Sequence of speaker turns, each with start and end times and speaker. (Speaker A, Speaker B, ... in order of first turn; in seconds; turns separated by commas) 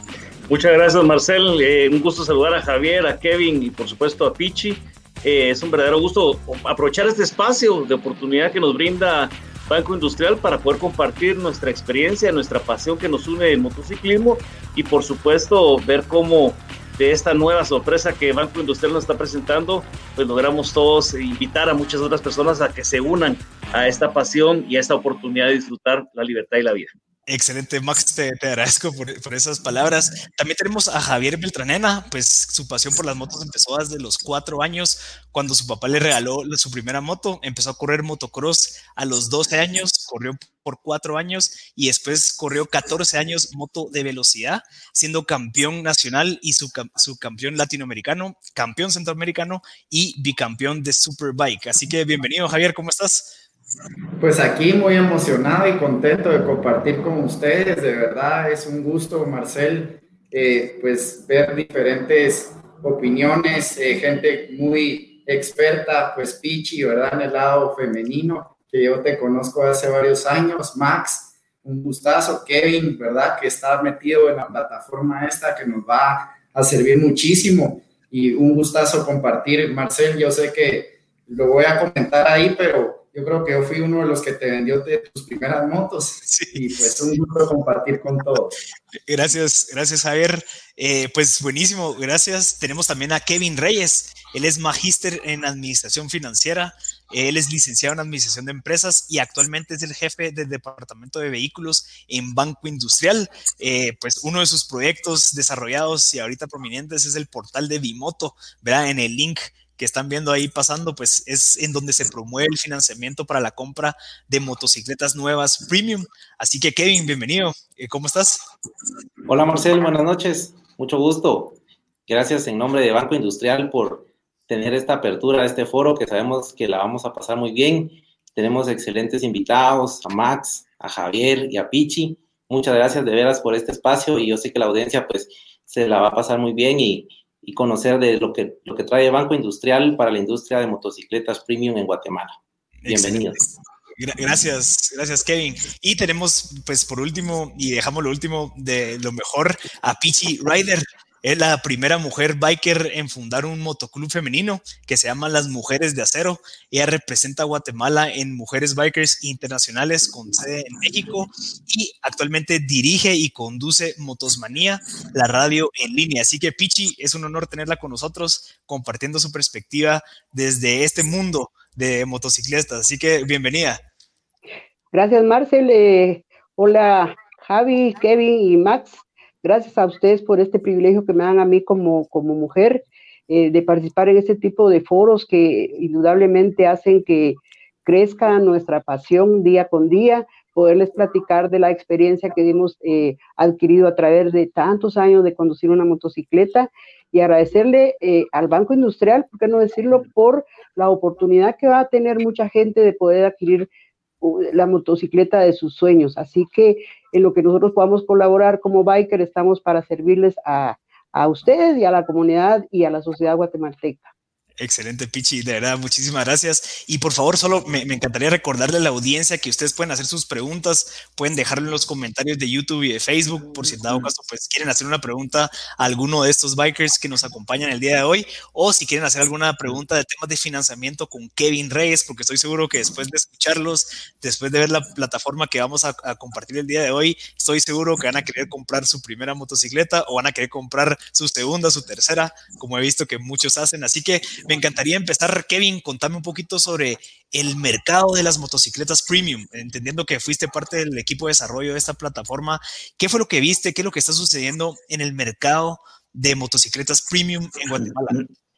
Speaker A: 0.5-26.9, Speaker B: 27.3-53.4, Speaker C: 54.2-88.6, Speaker B: 86.3-86.6, Speaker B: 89.1-118.4, Speaker D: 119.3-142.4, Speaker B: 142.8-143.3, Speaker D: 142.9-143.4, Speaker B: 144.0-173.8, Speaker E: 174.9-203.7, Speaker E: 204.2-214.1, Speaker B: 214.6-258.2, Speaker A: 223.6-224.1